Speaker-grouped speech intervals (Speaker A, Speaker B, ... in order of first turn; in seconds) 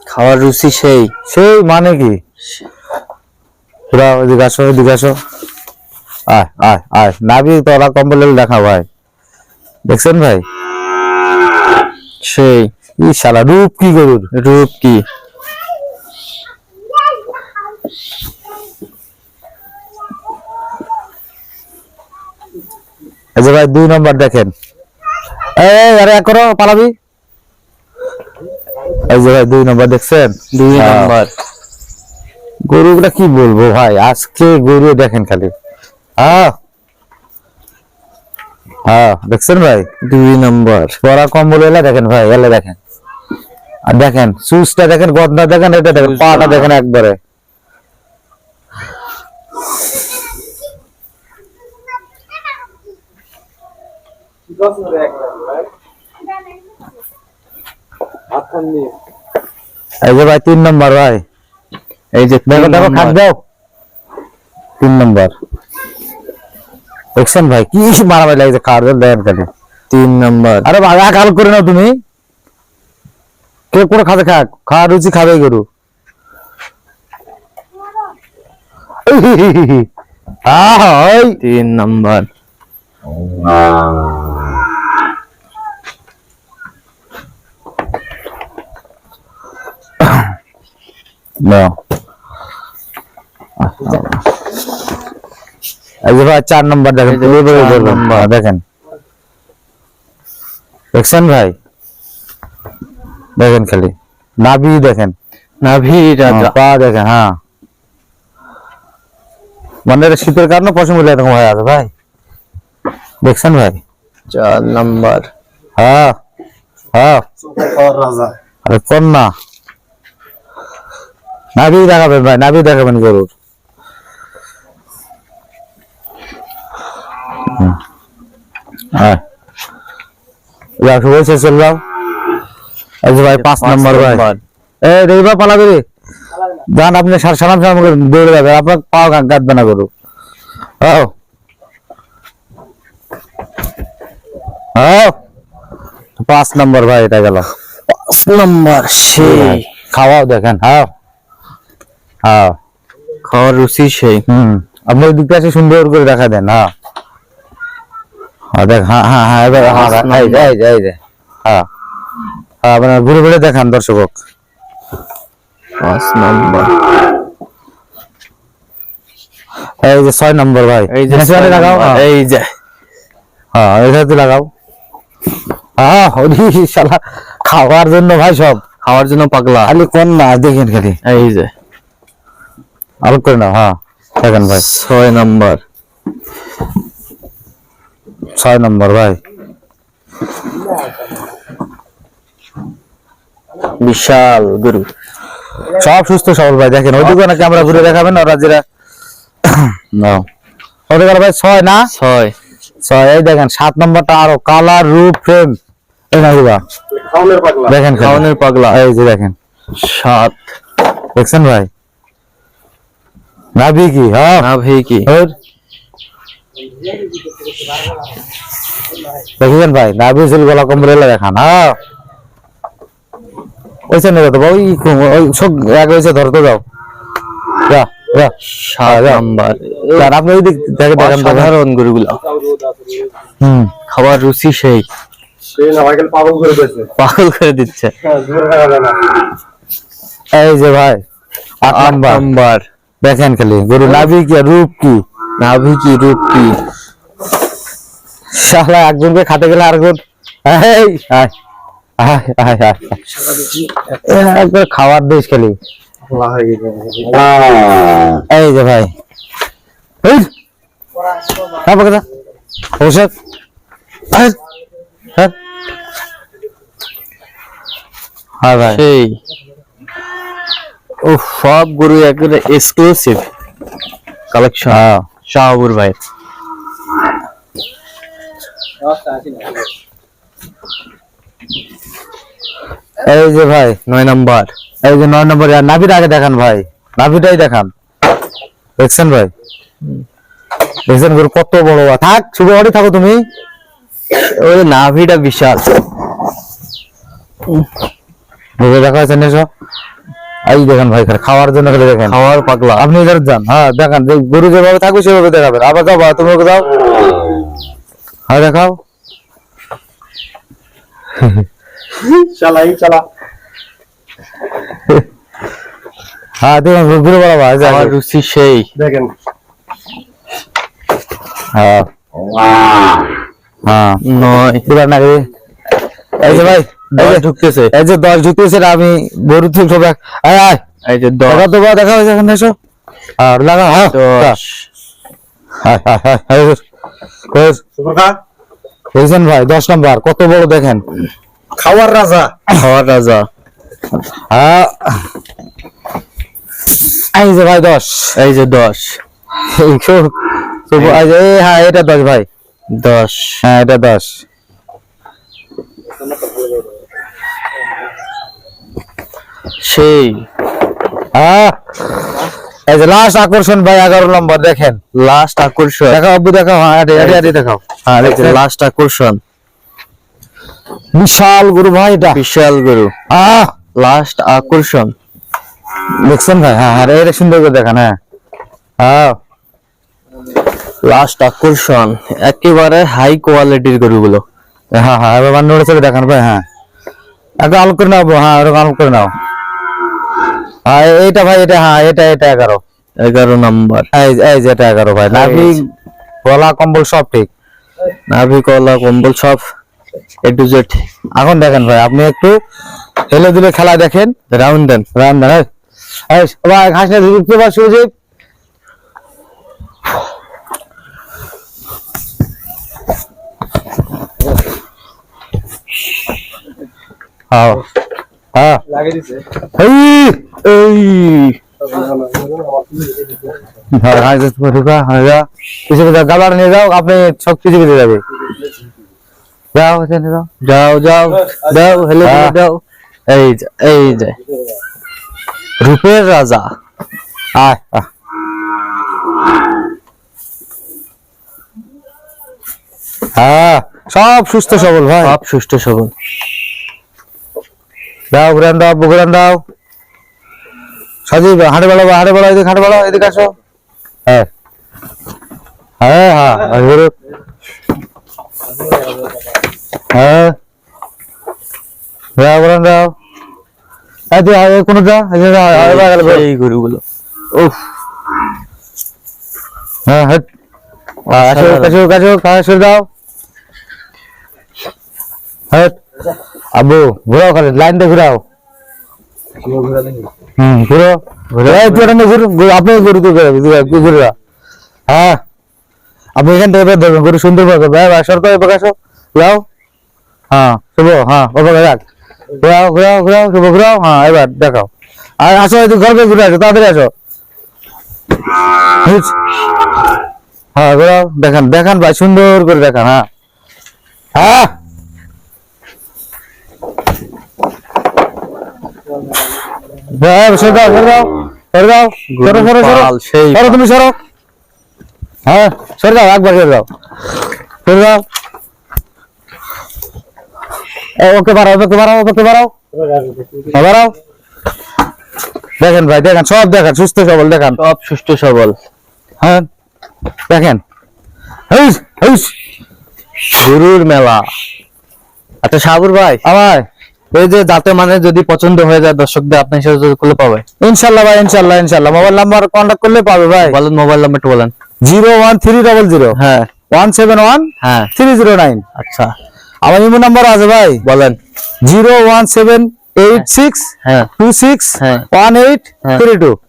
Speaker A: 0.1-1.1, 12.2-12.7, 14.3-15.0, 30.5-31.3, 40.0-41.0, 45.9-46.7, 62.1-63.2, 69.9-70.7, 81.4-82.3, 97.0-98.3, 105.6-106.5, 114.3-115.3, 133.4-134.4, 147.9-149.6, 153.3-154.2, 159.6-160.5, 165.8-166.7, 170.9-172.5, 178.8-179.7, 181.1-181.5, 184.5-185.6, 193.8-194.9, 197.0-198.0, 201.9-202.3, 208.0-208.8, 209.7-210.4, 214.4-215.1, 228.5-230.1, 230.9-232.2, 233.9-234.8, 237.0-237.9, 241.7-242.6, 243.8-244.1, 245.4-246.6, 268.7-269.2, 271.0-273.3, 274.3-276.0, 283.9-284.5, 294.1-295.8, 302.1-302.9, 317.6-318.7, 324.0-324.6, 326.2-327.7, 330.9-331.5, 333.9-334.7, 342.5-343.3, 348.1-349.0, 350.8-351.0, 352.7-353.4, 359.6-360.2, 364.9-366.0, 366.9-367.3, 368.0-369.2, 372.1-372.9, 373.8-374.9, 380.8-384.2, 393.0-393.9, 395.1-395.6, 398.1-399.4, 400.2-400.9, 404.3-404.9, 420.4-421.4, 430.4-434.2, 435.6-436.5, 445.0-445.9, 465.5-466.8, 471.1-471.8, 481.3-481.9, 512.1-513.6, 527.6-528.5, 533.3-534.3, 535.4-536.2, 537.2-540.4, 543.4-544.5, 546.1-546.5, 547.6-547.9, 548.8-549.1, 550.8-551.2, 553.8-554.1, 554.8-555.0
Speaker B: 1.3-2.2, 3.9-5.2, 6.3-8.8, 9.9-10.4, 13.0-14.3, 23.4-24.5, 25.6-26.9, 29.1-31.1, 32.7-35.5, 36.2-36.5, 38.9-39.9, 41.0-42.8, 43.9-47.2, 60.0-61.2, 62.5-63.4, 64.8-65.3, 67.2-69.5, 70.6-71.9, 73.7-75.6, 79.0-79.9, 80.5-81.4, 91.4-91.7, 93.6-94.2, 96.0-98.6, 100.9-101.5, 103.4-105.1, 106.3-107.3, 109.9-111.9, 113.2-113.8, 115.8-116.1, 116.9-117.2, 118.6-119.3, 121.5-123.3, 127.5-127.8, 130.8-131.8, 133.0-134.2, 134.8-135.8, 136.7-139.9, 140.8-141.1, 144.8-145.1, 146.2-147.5, 149.2-150.9, 152.3-152.6, 154.3-156.7, 158.6-161.6, 162.6-164.1, 169.8-172.0, 173.5-174.4, 175.8-178.6, 179.7-181.0, 183.0-184.6, 188.4-189.2, 195.7-198.6, 199.4-200.2, 200.9-201.9, 202.8-205.5, 206.1-206.6, 207.6-209.3, 211.2-211.7, 213.6-214.4, 215.1-215.3, 219.4-221.8, 223.9-226.6, 227.7-229.2, 229.9-231.5, 233.4-233.7, 240.3-241.0, 241.6-242.2, 243.0-245.0, 248.3-251.3, 252.0-253.0, 254.0-255.6, 257.1-257.6, 258.3-258.9, 260.0-260.3, 261.5-262.0, 262.8-263.1, 264.1-264.4, 268.4-268.8, 274.7-275.0, 283.0-283.8, 284.8-287.7, 288.8-289.3, 290.9-293.2, 298.6-299.5, 300.5-302.1, 302.8-306.7, 308.3-308.8, 311.2-311.4, 316.4-317.9, 321.5-321.9, 323.6-324.0, 324.6-325.2, 326.2-330.6, 331.3-332.5, 333.2-334.4, 335.6-336.6, 337.3-337.6, 338.9-340.8, 341.6-342.4, 344.3-345.0, 347.1-348.1, 349.4-352.3, 353.4-354.2, 361.1-361.6, 362.7-364.8, 365.9-368.4, 370.9-372.2, 373.1-373.5, 376.0-377.9, 378.8-379.1, 384.7-386.4, 387.4-389.1, 390.7-392.6, 393.9-395.6, 396.2-397.3, 401.2-402.3, 403.1-404.1, 404.9-405.5, 406.1-407.9, 417.3-417.6, 418.3-418.6, 419.4-420.2, 423.7-428.0, 429.5-430.3, 432.0-432.4, 437.4-437.9, 443.2-445.2, 448.1-449.4, 451.1-453.3, 455.8-456.9, 459.9-460.4, 462.2-462.9, 464.1-466.2, 469.9-470.2, 471.1-472.9, 475.5-475.8, 476.6-478.2, 480.4-484.1, 484.9-485.2, 486.2-489.4, 490.3-491.8, 492.4-494.7, 495.2-496.9, 498.8-499.1, 500.5-503.0, 504.1-504.5, 509.9-514.0, 515.3-516.6, 517.6-518.0, 521.0-522.5, 523.5-523.9, 525.6-527.6, 529.2-529.5, 530.3-530.6, 531.5-532.3, 536.2-536.6, 540.6-543.6, 544.8-546.1, 546.7-548.6, 549.6-550.8, 551.6-556.4
Speaker C: 54.8-55.1, 58.4-58.9, 117.7-118.3, 207.0-207.7, 235.6-236.8, 238.2-239.0, 256.1-257.1, 312.3-313.0, 318.8-319.1, 337.8-338.1, 341.7-342.1, 421.7-423.1, 479.4-480.1, 522.8-523.5